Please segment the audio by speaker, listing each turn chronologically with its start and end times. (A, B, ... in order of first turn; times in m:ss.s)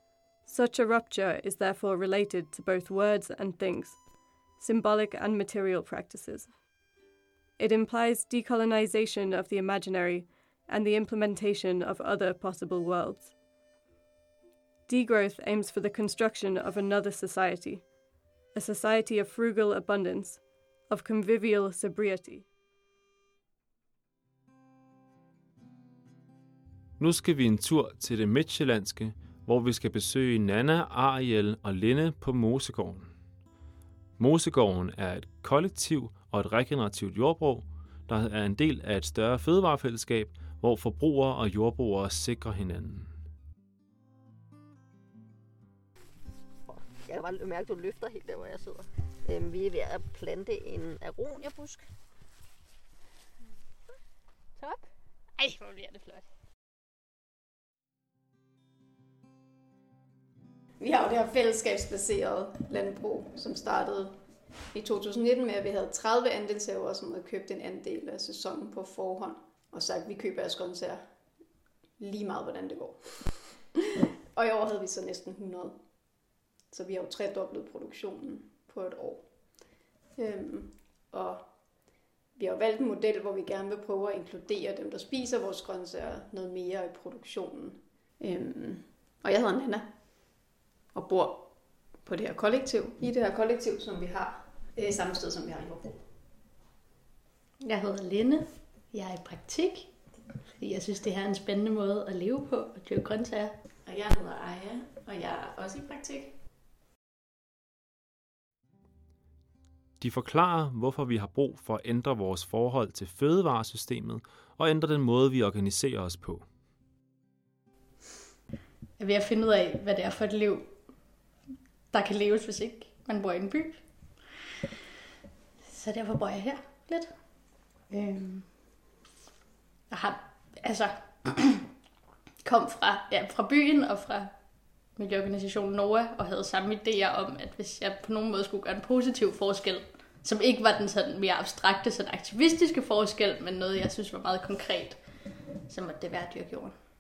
0:00.4-0:06.6 A
0:07.6-0:13.4 A
0:14.9-0:17.9 A
0:18.5-0:22.5 A
0:27.0-0:33.1 B
0:34.2-0:43.1 B
0:46.7-0:51.8 C
1:00.8-1:04.2 D
1:04.7-1:11.1 D
1:12.0-1:13.6 D
1:14.3-1:16.1 D
1:16.7-1:30.4 D
1:30.9-1:36.1 D
1:37.6-1:40.0 E
1:40.6-1:43.6 E
1:43.9-1:46.3 D
1:50.0-1:56.5 B
1:59.0-2:01.1 E
2:01.9-2:04.1 E
2:05.6-2:07.2 E
2:07.9-2:08.6 E
2:09.9-2:11.6 E
2:12.4-2:14.4 E
2:14.9-2:25.1 E
2:25.7-2:26.8 E